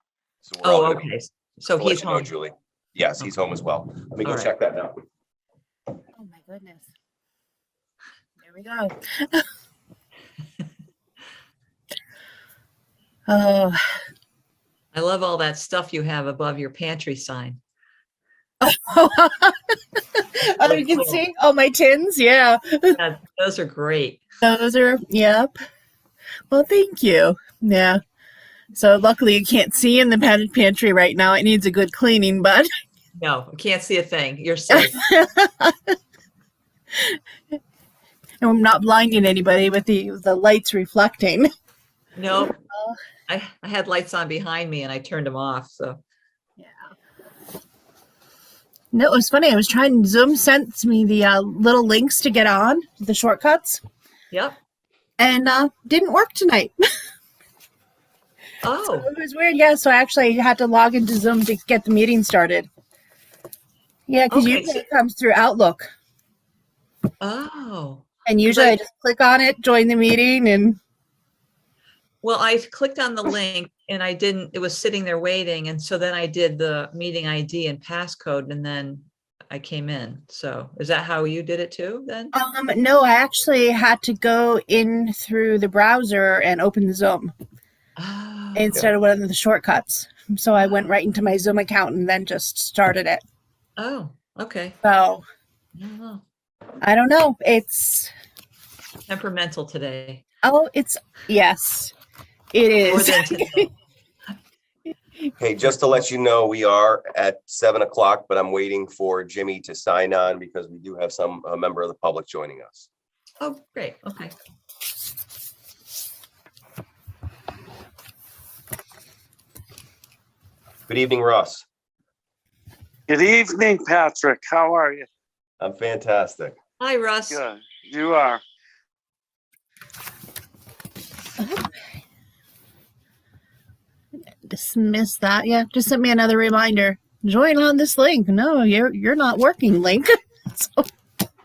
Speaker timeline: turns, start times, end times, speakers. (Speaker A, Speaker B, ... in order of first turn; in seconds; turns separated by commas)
Speaker A: 0.4-1.1, Speaker B: 0.6-2.3, Speaker A: 1.7-5.0, Speaker B: 4.2-4.5, Speaker C: 6.2-6.8, Speaker C: 8.4-9.4, Speaker C: 13.3-13.8, Speaker B: 14.9-17.6, Speaker C: 18.6-23.0, Speaker B: 20.6-21.2, Speaker B: 22.9-24.2, Speaker C: 24.4-25.5, Speaker C: 26.5-28.0, Speaker C: 28.7-32.7, Speaker B: 33.2-35.0, Speaker C: 34.7-35.9, Speaker C: 38.4-41.5, Speaker B: 42.1-42.5, Speaker C: 42.5-43.0, Speaker B: 43.3-46.0, Speaker C: 48.9-53.8, Speaker B: 54.3-54.6, Speaker C: 55.2-56.7, Speaker B: 58.6-59.1, Speaker C: 58.8-62.7, Speaker C: 64.1-65.9, Speaker B: 64.3-64.8, Speaker B: 67.2-68.8, Speaker C: 68.2-70.8, Speaker B: 72.2-82.3, Speaker C: 82.3-87.3, Speaker B: 88.0-88.8, Speaker C: 88.5-93.2, Speaker B: 93.8-94.8, Speaker C: 94.8-95.2, Speaker B: 95.8-96.2, Speaker C: 96.8-98.1, Speaker B: 99.1-100.2, Speaker C: 100.4-101.9, Speaker C: 102.5-103.7, Speaker B: 102.9-103.7, Speaker A: 105.4-112.9, Speaker B: 113.4-114.3, Speaker A: 120.9-121.7, Speaker D: 123.1-125.1, Speaker A: 125.6-126.6, Speaker B: 126.8-127.4, Speaker D: 127.3-128.4, Speaker C: 131.4-131.7, Speaker C: 134.4-140.8